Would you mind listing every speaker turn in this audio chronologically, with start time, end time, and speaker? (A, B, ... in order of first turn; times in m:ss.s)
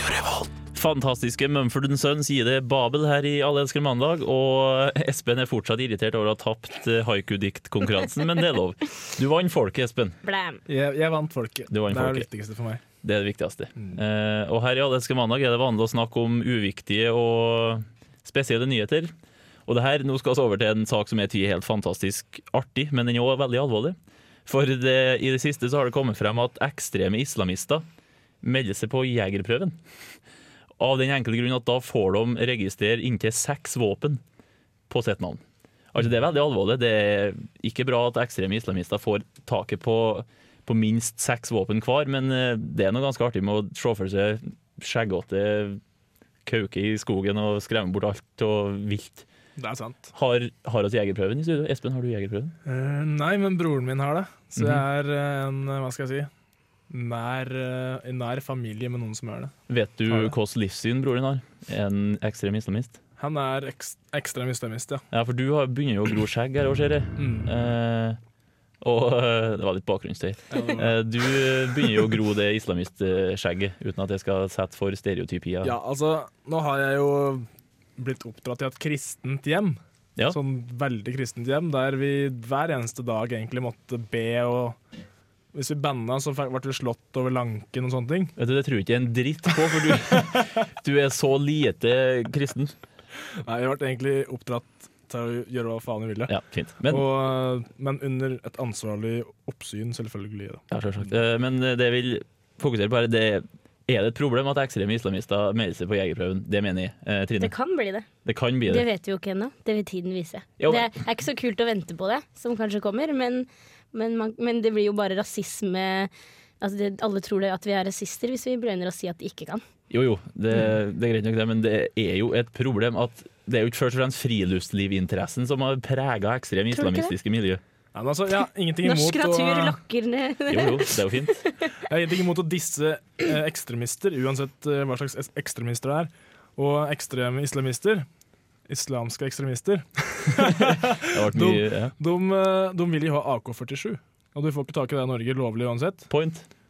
0:00.7-0:10.2 A
0:10.2-0:10.6 B
0:10.7-0:12.8 C
0:11.7-0:12.2 A
0:13.0-0:19.1 A
0:19.7-0:24.0 A
0:24.5-0:27.8 A
0:28.4-0:29.8 A
0:30.8-0:34.2 A
0:34.9-0:35.4 A
0:35.9-0:45.8 A
0:46.4-0:49.2 A
0:49.6-0:50.1 C
0:50.1-0:52.5 A
0:52.6-0:56.3 C
0:54.6-0:54.8 A
0:56.9-0:59.5 C
0:59.7-1:03.0 A
1:00.1-1:00.3 C
1:03.2-1:05.0 C
1:05.1-1:08.2 A
1:07.2-1:07.5 C
1:08.8-1:15.7 A
1:10.5-1:11.0 C
1:15.6-1:24.8 C
1:25.5-1:28.3 C
1:28.4-1:32.7 A
1:29.9-1:30.4 C
1:33.4-1:36.3 C
1:36.3-1:37.0 A
1:36.9-1:40.6 C
1:40.7-1:47.5 A
1:47.4-1:48.0 B
1:48.2-1:48.8 A
1:48.7-1:59.6 B
1:50.6-1:50.9 A
1:59.9-2:07.6 A
2:06.7-2:07.1 B
2:07.9-2:09.8 C
2:08.8-2:11.6 B
2:10.5-2:11.5 A
2:11.8-2:18.0 C
2:18.7-2:26.1 C
2:20.6-2:21.9 A
2:26.1-2:26.4 A